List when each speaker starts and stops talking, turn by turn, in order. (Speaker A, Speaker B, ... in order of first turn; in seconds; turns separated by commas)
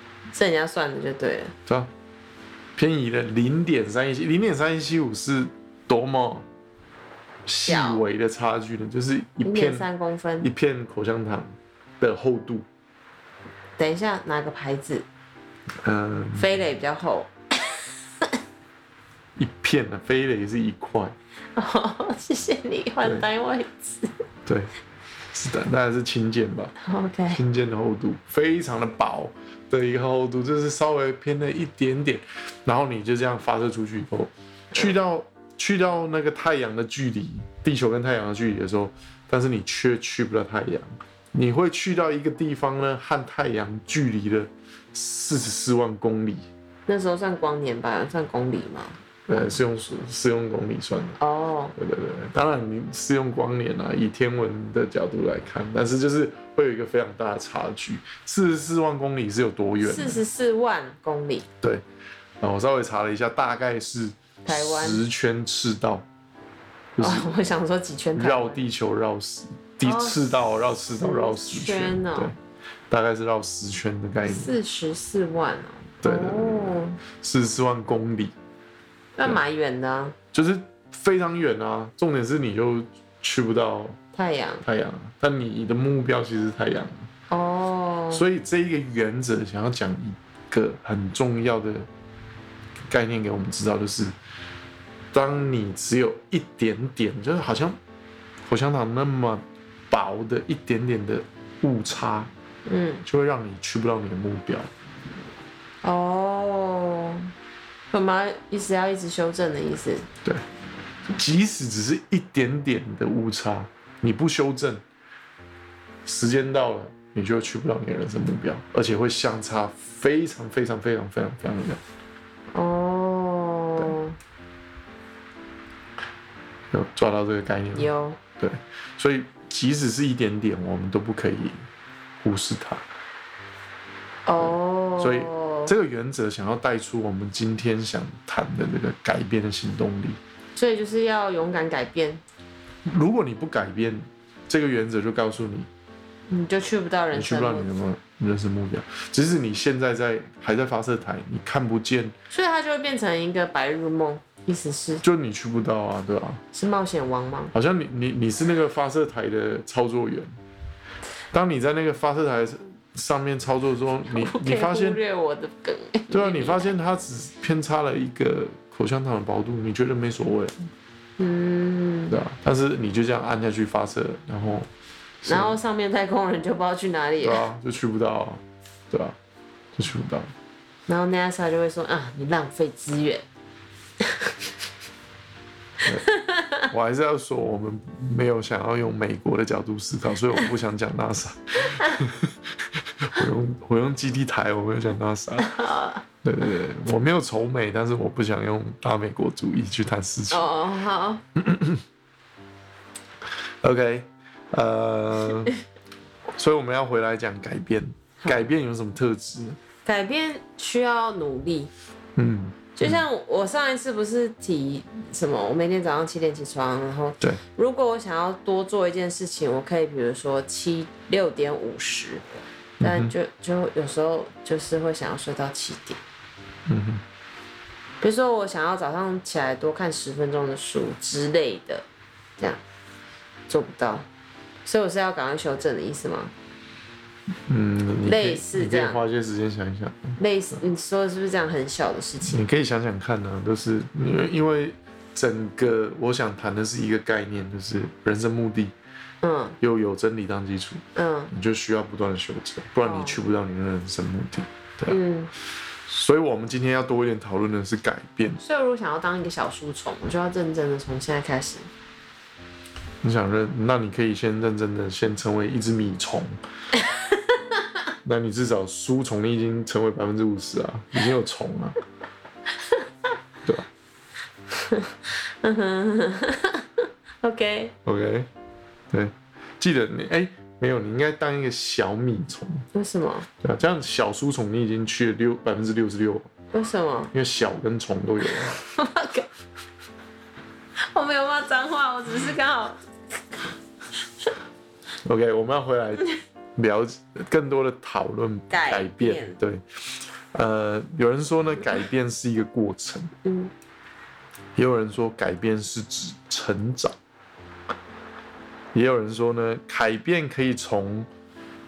Speaker A: 0.3-1.5, Speaker B: 2.8-6.5, Speaker B: 7.5-9.9, Speaker A: 7.7-8.0, Speaker A: 9.4-10.5, Speaker B: 10.4-12.7, Speaker A: 13.8-15.0, Speaker B: 15.8-16.5, Speaker A: 16.3-17.3, Speaker B: 19.4-21.1, Speaker A: 21.6-24.1, Speaker B: 24.5-24.7, Speaker B: 25.3-26.7, Speaker A: 26.8-27.4, Speaker B: 27.3-46.5, Speaker A: 46.9-49.0, Speaker B: 49.3-51.2, Speaker A: 51.2-51.8, Speaker B: 51.8-60.2, Speaker A: 59.8-61.5, Speaker B: 62.4-66.1, Speaker A: 64.5-65.0, Speaker B: 67.0-67.4, Speaker A: 67.0-68.6, Speaker B: 68.1-72.3, Speaker A: 69.8-70.3, Speaker A: 71.0-72.3, Speaker B: 72.9-74.5, Speaker A: 74.2-77.0, Speaker B: 76.0-78.3, Speaker A: 79.2-80.2, Speaker B: 80.3-84.0, Speaker A: 84.1-84.6, Speaker B: 84.6-87.1, Speaker A: 87.3-88.2, Speaker B: 88.1-91.9, Speaker B: 92.9-94.1, Speaker B: 95.1-97.8, Speaker B: 98.5-102.3, Speaker A: 102.7-103.0, Speaker B: 103.0-104.7, Speaker A: 105.8-107.3, Speaker A: 107.9-110.1, Speaker B: 111.1-114.8, Speaker B: 116.0-121.8, Speaker A: 122.5-124.2, Speaker B: 126.7-131.7, Speaker A: 127.7-128.2, Speaker B: 132.2-132.8, Speaker A: 134.2-135.7, Speaker B: 134.4-140.2, Speaker A: 140.5-142.2, Speaker B: 142.8-145.7, Speaker A: 146.3-147.7, Speaker B: 147.1-152.1, Speaker A: 152.3-155.0, Speaker B: 155.0-156.4, Speaker A: 156.5-157.5, Speaker B: 157.5-160.4, Speaker B: 161.3-165.0, Speaker A: 164.1-166.7, Speaker B: 166.1-170.7, Speaker A: 171.2-172.2, Speaker B: 172.1-174.7, Speaker B: 175.2-175.6, Speaker A: 175.2-177.4, Speaker B: 177.2-179.2, Speaker B: 179.7-180.3, Speaker A: 180.9-183.2, Speaker A: 185.9-186.6, Speaker B: 186.7-192.4, Speaker B: 193.0-195.6, Speaker A: 195.4-196.0, Speaker B: 196.2-200.5, Speaker A: 200.3-201.2, Speaker B: 201.3-201.8, Speaker B: 203.6-205.5, Speaker B: 206.3-209.6, Speaker A: 208.2-208.5, Speaker A: 209.8-211.7, Speaker B: 212.2-213.0, Speaker A: 212.8-222.2, Speaker B: 222.8-223.1, Speaker A: 222.8-226.0, Speaker B: 226.7-227.0, Speaker A: 228.0-231.8, Speaker A: 233.5-234.0, Speaker A: 234.6-236.3, Speaker B: 237.5-240.2, Speaker A: 238.0-239.0, Speaker A: 240.2-242.4, Speaker B: 242.2-248.7, Speaker A: 249.2-249.6, Speaker B: 249.6-255.0, Speaker A: 250.9-251.3, Speaker A: 252.8-253.2, Speaker A: 254.9-255.3, Speaker B: 255.9-258.4, Speaker A: 258.4-261.7, Speaker B: 263.0-266.4, Speaker A: 266.9-267.4, Speaker B: 268.0-271.8, Speaker A: 274.5-277.7, Speaker B: 277.8-278.3, Speaker B: 278.9-282.6, Speaker A: 282.7-283.3, Speaker B: 283.4-286.3, Speaker A: 286.5-287.1, Speaker B: 287.1-288.6, Speaker A: 288.4-289.3, Speaker A: 290.9-292.8, Speaker B: 295.0-303.1, Speaker A: 298.5-299.4, Speaker A: 303.2-303.5, Speaker B: 304.6-307.0, Speaker B: 308.7-311.1